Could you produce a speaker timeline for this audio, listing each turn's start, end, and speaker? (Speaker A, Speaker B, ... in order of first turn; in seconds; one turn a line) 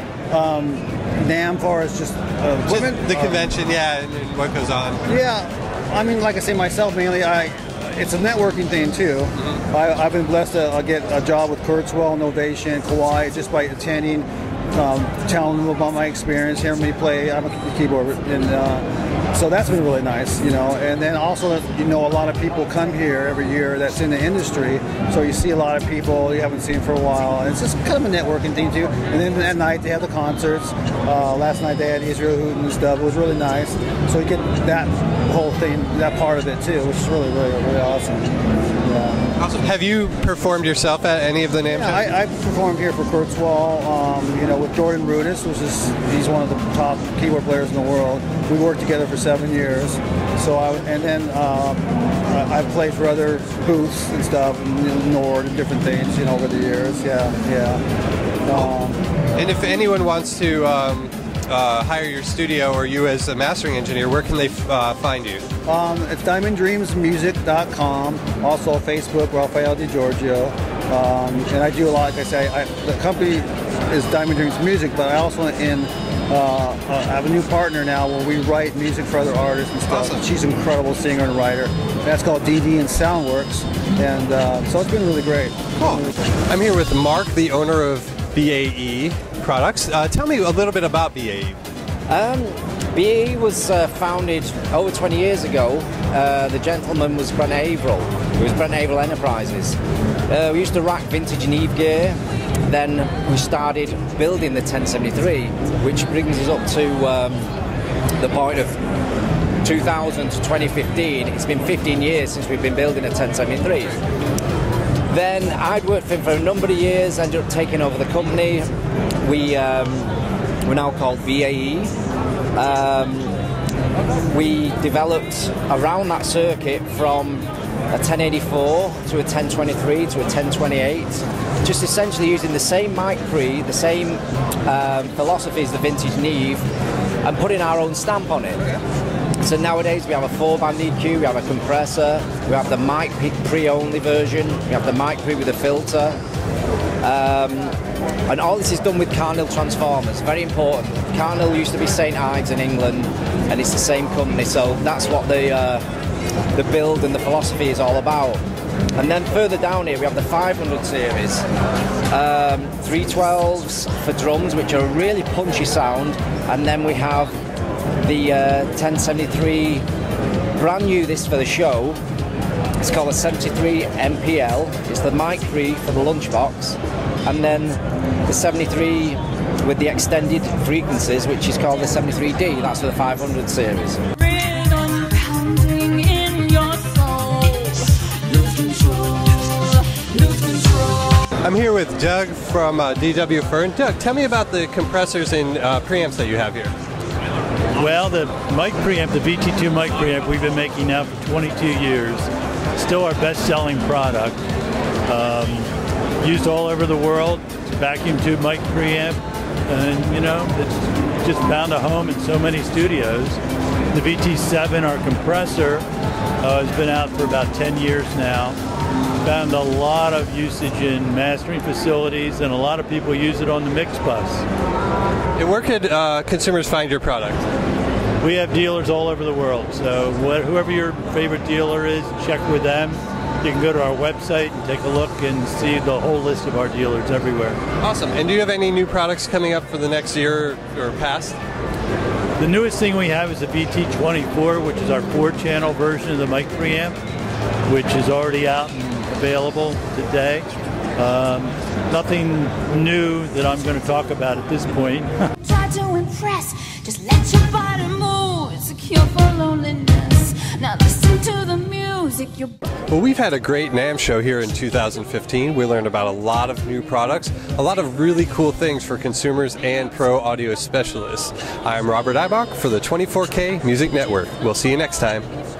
Speaker A: 0.3-3.5
Speaker B: 2.6-5.0
Speaker A: 5.1-39.2
Speaker B: 39.4-42.1
Speaker A: 41.7-57.8
Speaker A: 58.4-59.0
Speaker B: 59.4-65.5
Speaker A: 65.7-85.6
Speaker B: 79.9-80.2
Speaker B: 85.8-91.6
Speaker C: 92.1-99.8
Speaker C: 100.3-107.5
Speaker C: 108.2-108.8
Speaker C: 109.6-114.0
Speaker C: 115.1-118.7
Speaker C: 119.2-121.9
Speaker C: 122.5-123.4
Speaker C: 124.2-136.6
Speaker C: 137.2-138.8
Speaker C: 139.4-146.2
Speaker C: 147.0-147.8
Speaker C: 148.3-155.8
Speaker C: 156.5-158.4
Speaker C: 159.0-161.4
Speaker C: 162.1-167.4
Speaker C: 168.0-169.8
Speaker C: 170.6-172.0
Speaker C: 172.8-184.0
Speaker D: 184.1-191.3
Speaker B: 191.4-196.7
Speaker E: 197.7-204.4
Speaker E: 205.1-205.7
Speaker E: 206.2-213.4
Speaker E: 213.9-215.8
Speaker E: 216.4-218.6
Speaker E: 219.2-224.4
Speaker B: 225.4-227.4
Speaker E: 228.2-237.6
Speaker B: 237.8-241.4
Speaker E: 242.4-246.9
Speaker E: 247.7-255.3
Speaker D: 255.4-262.6
Speaker B: 262.9-275.3